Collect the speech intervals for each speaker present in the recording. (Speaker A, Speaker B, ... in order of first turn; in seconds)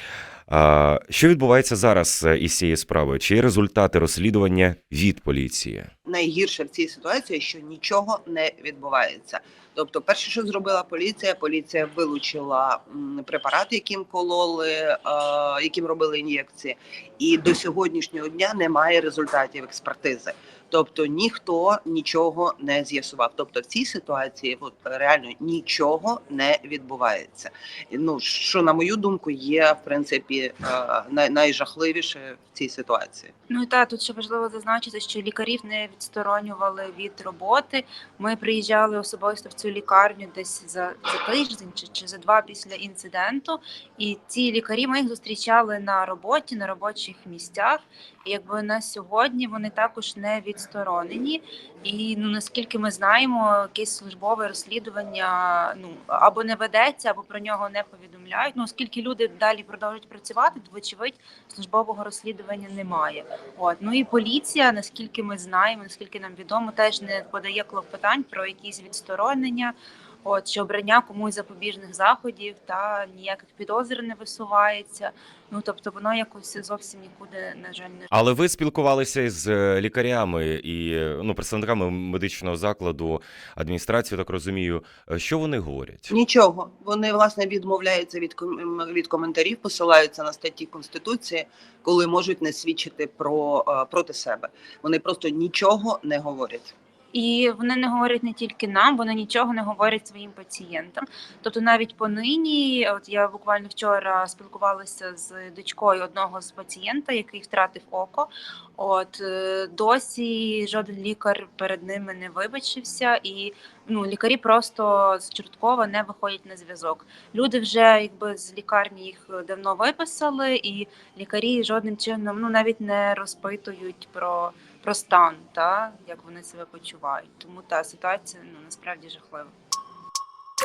Speaker A: 0.5-5.9, 78.1-86.1
Speaker B: 6.1-33.3, 86.1-96.7
Speaker C: 33.5-78.1, 97.1-129.5